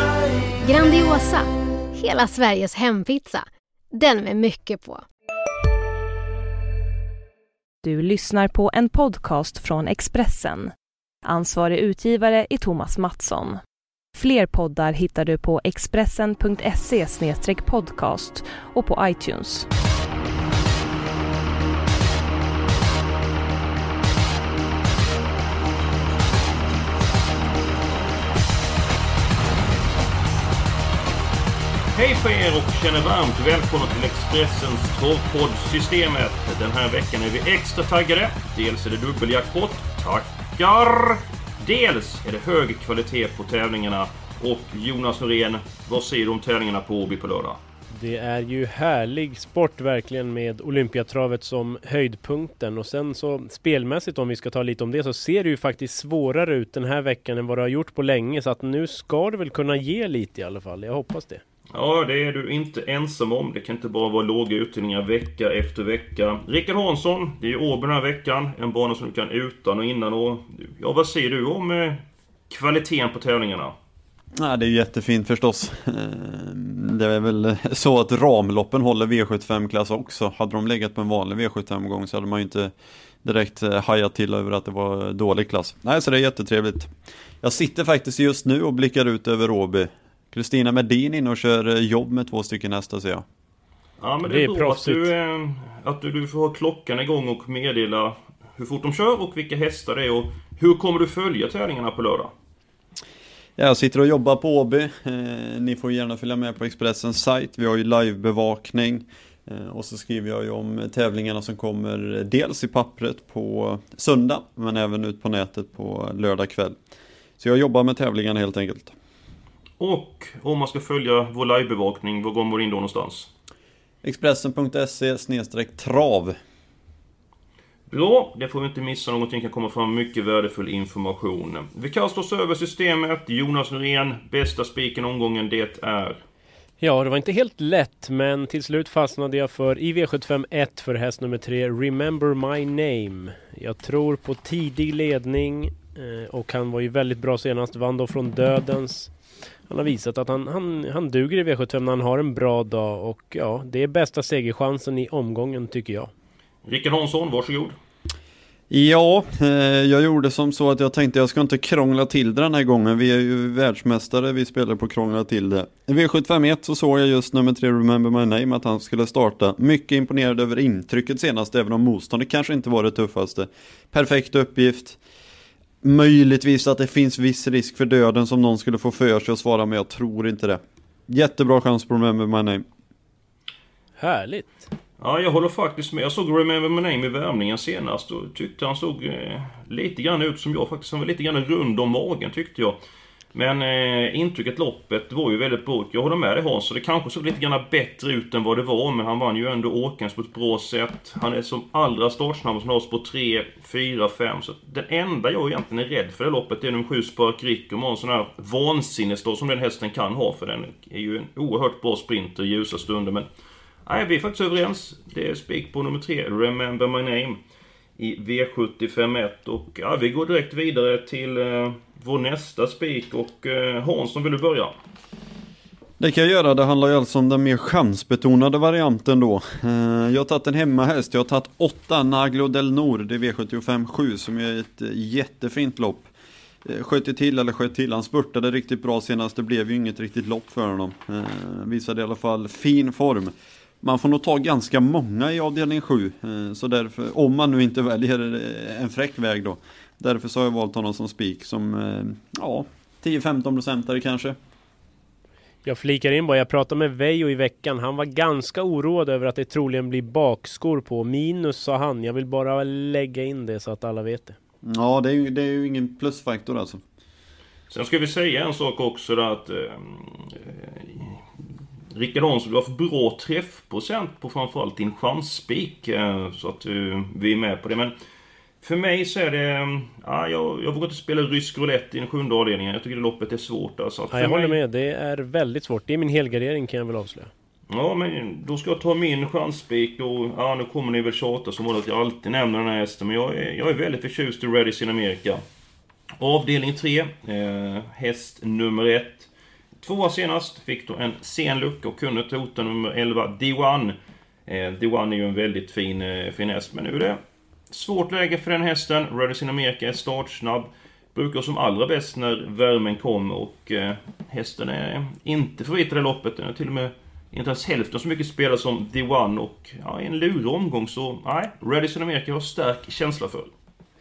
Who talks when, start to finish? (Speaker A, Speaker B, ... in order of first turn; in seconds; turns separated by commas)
Speaker A: 0.6-5.0, Speaker B: 7.8-10.7, Speaker B: 11.2-13.6, Speaker B: 14.2-19.7, Speaker C: 31.9-47.6, Speaker D: 47.9-61.4, Speaker C: 61.7-73.7, Speaker E: 74.4-93.2, Speaker C: 94.0-102.3, Speaker D: 94.2-95.1, Speaker E: 103.6-116.8, Speaker E: 117.4-118.9, Speaker C: 119.8-123.3, Speaker E: 124.0-126.4, Speaker C: 127.9-136.2, Speaker D: 136.8-149.1, Speaker D: 149.7-156.1, Speaker C: 156.6-157.8, Speaker E: 158.7-175.0, Speaker E: 175.8-182.7, Speaker D: 184.0-184.7, Speaker C: 185.0-192.8, Speaker C: 193.3-213.3, Speaker C: 213.8-217.4, Speaker C: 218.0-224.7, Speaker E: 226.0-236.1, Speaker E: 236.6-254.4, Speaker D: 255.6-264.4, Speaker E: 264.6-266.8, Speaker C: 267.7-271.4, Speaker C: 271.9-277.9, Speaker C: 278.6-284.6, Speaker D: 284.1-287.3, Speaker C: 287.7-295.4, Speaker C: 296.2-299.3, Speaker C: 299.8-303.9, Speaker C: 304.5-307.2, Speaker C: 307.7-323.5